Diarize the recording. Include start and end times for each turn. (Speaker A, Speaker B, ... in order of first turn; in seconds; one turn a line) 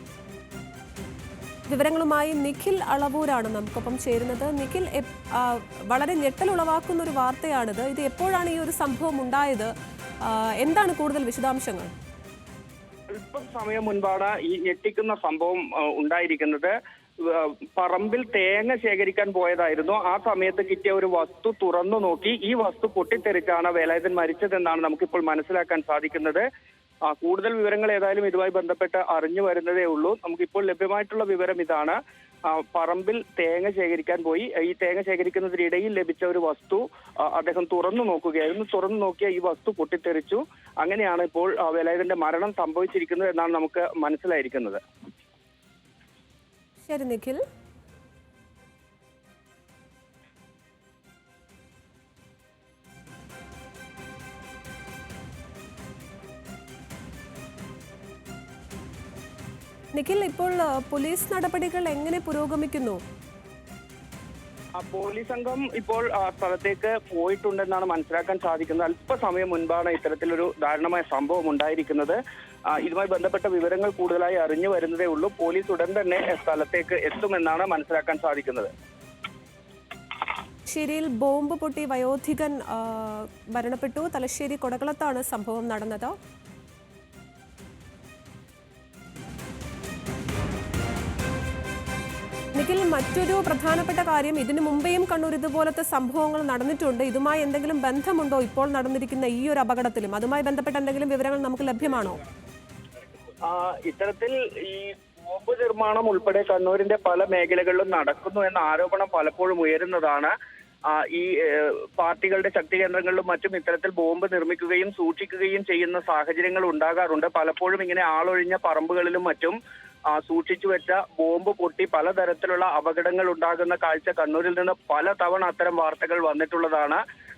Speaker A: 1.7-9.7
Speaker A: 10.2-11.9
Speaker B: 13.1-26.4
Speaker B: 27.1-44.8
Speaker A: 46.8-47.4
Speaker A: 59.9-63.0
Speaker B: 64.8-78.7
Speaker A: 80.7-86.1
Speaker A: 92.5-102.2
Speaker B: 103.4-110.3
Speaker B: 110.9-119.6
Speaker B: 120.1-127.0